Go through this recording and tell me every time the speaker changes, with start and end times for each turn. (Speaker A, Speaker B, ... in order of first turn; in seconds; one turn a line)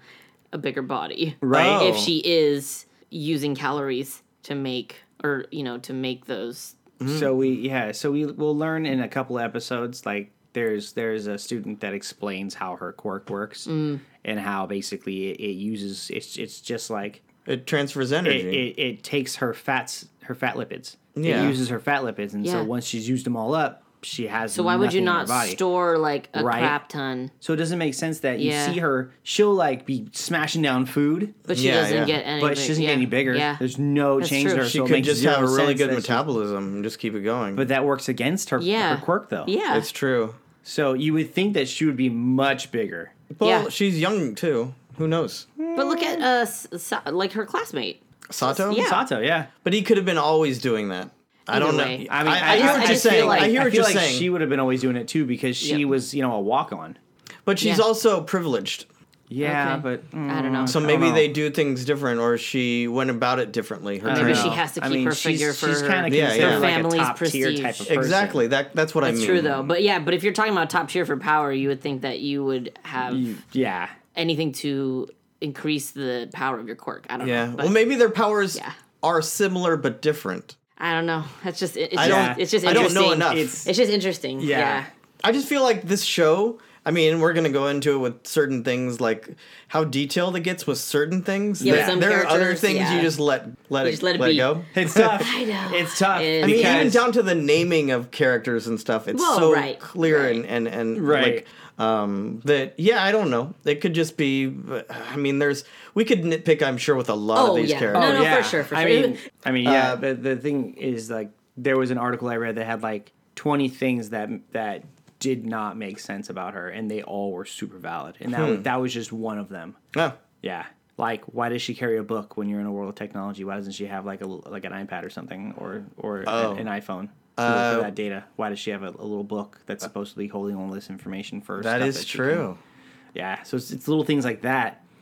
Speaker A: 0.5-6.8
Speaker B: 1.4-1.9
Speaker C: 1.5-2.1
Speaker C: 7.0-7.3
Speaker B: 7.1-17.2
Speaker A: 13.7-14.0
Speaker C: 17.4-18.6
Speaker B: 18.2-25.6
Speaker C: 21.1-21.6
Speaker A: 21.2-21.5
Speaker A: 22.4-22.7
Speaker A: 24.5-27.3
Speaker B: 26.3-26.8
Speaker B: 27.4-31.4
Speaker A: 28.4-28.8
Speaker C: 31.5-32.2
Speaker A: 31.5-33.6
Speaker B: 32.4-36.2
Speaker A: 34.2-34.7
Speaker C: 34.6-37.7
Speaker B: 37.5-39.5
Speaker A: 38.6-39.9
Speaker C: 39.7-40.4
Speaker B: 40.6-43.1
Speaker C: 43.3-45.5
Speaker A: 43.4-43.7
Speaker B: 45.6-46.2
Speaker A: 45.7-49.0
Speaker C: 48.3-48.9
Speaker B: 48.7-49.5
Speaker C: 49.6-54.3
Speaker A: 51.5-53.5
Speaker B: 52.0-57.0
Speaker A: 55.6-55.9
Speaker C: 57.5-58.9
Speaker B: 59.3-61.3
Speaker A: 59.4-60.8
Speaker C: 60.7-64.6
Speaker B: 64.0-68.4
Speaker A: 64.1-67.8
Speaker C: 66.1-66.7
Speaker C: 67.8-69.7
Speaker A: 69.0-73.4
Speaker B: 73.1-73.9
Speaker A: 74.1-77.8
Speaker C: 77.2-80.5
Speaker A: 80.8-84.9
Speaker C: 82.0-83.5
Speaker B: 82.0-83.7
Speaker B: 84.4-84.9
Speaker C: 85.2-95.2
Speaker B: 91.6-92.0
Speaker A: 91.6-93.1
Speaker A: 93.8-94.6
Speaker B: 94.7-97.0
Speaker A: 95.2-97.0
Speaker C: 96.4-108.4
Speaker A: 99.1-100.4
Speaker B: 100.9-101.4
Speaker A: 107.3-109.2
Speaker B: 107.9-119.8
Speaker C: 109.6-110.0
Speaker C: 118.3-118.7
Speaker B: 120.4-132.5
Speaker C: 126.2-126.6
Speaker C: 127.3-127.9
Speaker C: 131.6-132.6
Speaker B: 133.1-134.8